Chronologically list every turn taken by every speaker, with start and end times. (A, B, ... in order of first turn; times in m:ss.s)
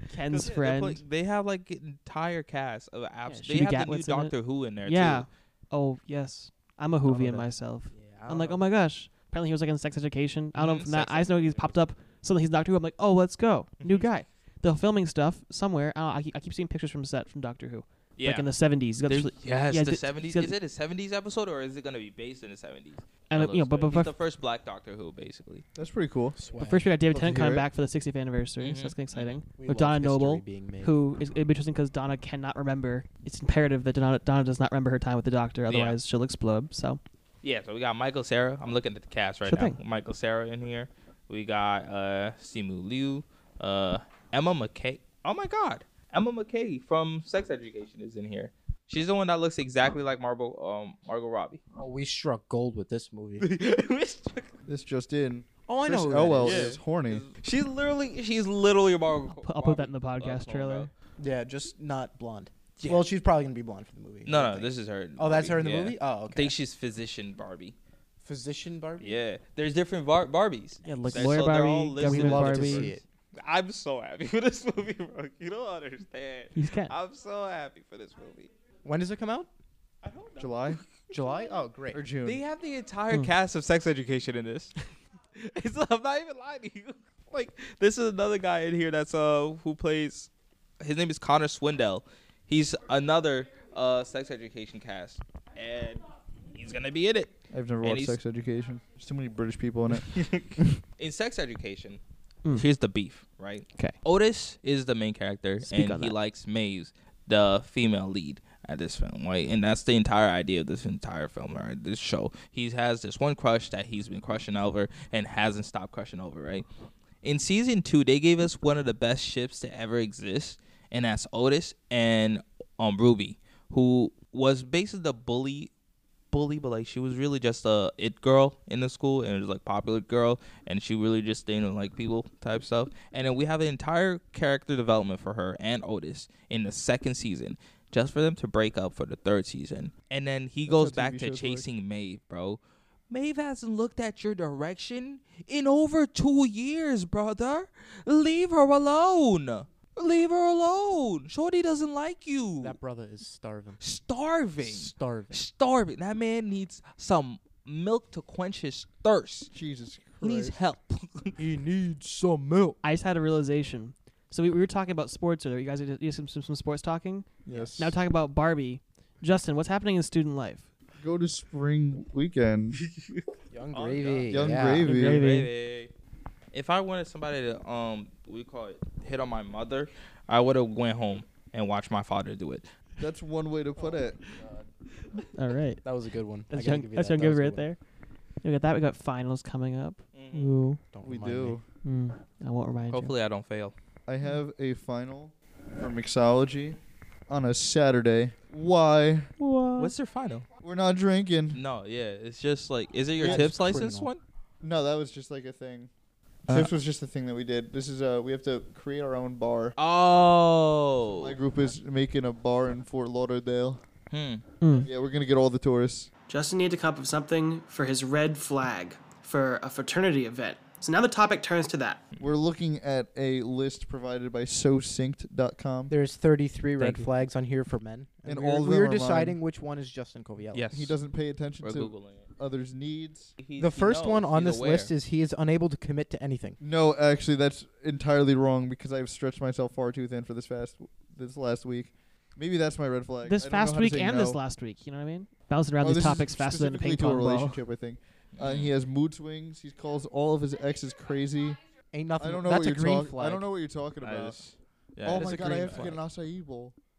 0:00.1-0:01.0 A
0:00.3-0:05.3 B
0:03.3-0:20.6 A
0:07.1-0:08.6 C
0:07.1-0:07.4 B
0:10.6-0:11.7 B
0:13.8-0:14.1 B
0:18.2-0:18.5 B
0:19.1-0:25.6 B
0:23.3-0:24.1 A
0:25.8-0:26.4 D
0:26.4-0:26.9 C
0:26.6-0:37.0 A
0:27.1-0:27.7 D
0:28.6-0:29.4 B
0:29.6-0:31.0 C
0:35.7-0:36.0 B
0:37.4-0:51.6 B
0:39.4-0:39.8 A
0:51.8-0:53.5 C
0:53.4-0:54.6 B
0:54.7-0:57.3 D
0:55.7-0:56.8 C
0:56.4-1:00.9 B
0:59.3-1:00.9 A
1:01.2-1:06.6 C
1:02.8-1:03.1 B
1:04.3-1:07.8 B
1:08.2-1:09.2 C
1:09.0-1:18.5 B
1:10.8-1:12.9 A
1:11.0-1:13.0 C
1:16.6-1:17.0 A
1:18.8-1:19.5 C
1:20.0-1:20.9 B
1:20.4-1:20.8 D
1:21.1-1:22.0 C
1:21.9-1:22.4 D
1:22.2-1:24.8 B
1:25.4-1:38.2 B
1:37.5-1:40.2 D
1:39.9-1:42.0 B
1:42.5-1:56.7 B
1:45.6-1:46.1 A
1:57.2-2:05.7 B
2:06.3-2:32.8 B
2:20.7-2:21.7 D
2:32.6-2:33.8 C
2:33.8-2:39.5 B
2:34.6-2:35.4 C
2:39.5-2:40.6 D
2:40.2-2:41.4 B
2:41.4-2:42.8 C
2:42.8-2:50.7 A
2:47.5-2:48.0 D
2:47.5-2:47.8 C
2:51.0-2:52.8 D
2:52.8-2:55.9 B
2:53.5-2:55.0 C
2:54.3-2:55.2 D
2:54.8-2:55.5 A
2:56.5-3:02.7 B
3:03.0-3:04.3 D
3:03.8-3:04.6 C
3:05.4-3:05.8 A
3:05.8-3:07.7 C
3:06.5-3:07.8 A
3:08.4-3:10.8 A
3:10.1-3:10.5 B
3:10.9-3:11.6 C
3:11.0-3:11.6 D
3:11.8-3:13.1 A
3:12.9-3:13.8 B
3:14.1-3:16.8 D
3:17.3-3:19.3 D
3:19.4-3:19.9 A
3:19.8-3:20.5 B
3:20.6-3:21.6 D
3:21.5-3:24.2 B
3:23.2-3:24.1 C
3:23.2-3:23.5 D
3:24.6-3:25.9 D
3:26.5-3:29.8 D
3:29.8-3:31.4 B
3:31.2-3:33.8 D
3:34.1-3:34.4 B
3:34.6-3:34.9 A
3:34.7-3:36.1 D
3:36.3-3:42.0 E
3:42.2-3:45.9 D
3:45.9-3:50.7 C
3:46.8-3:47.1 B
3:48.3-3:49.4 D
3:50.5-3:51.0 B
3:50.7-3:53.3 D
3:51.6-3:52.3 B
3:53.4-3:54.9 B
3:53.6-3:56.6 C
3:56.6-4:04.4 D
4:03.2-4:07.6 A
4:05.8-4:11.6 D
4:08.4-4:08.7 B
4:11.9-4:13.5 C
4:12.2-4:14.4 D
4:14.0-4:16.0 B
4:15.0-4:16.0 C
4:15.0-4:16.8 D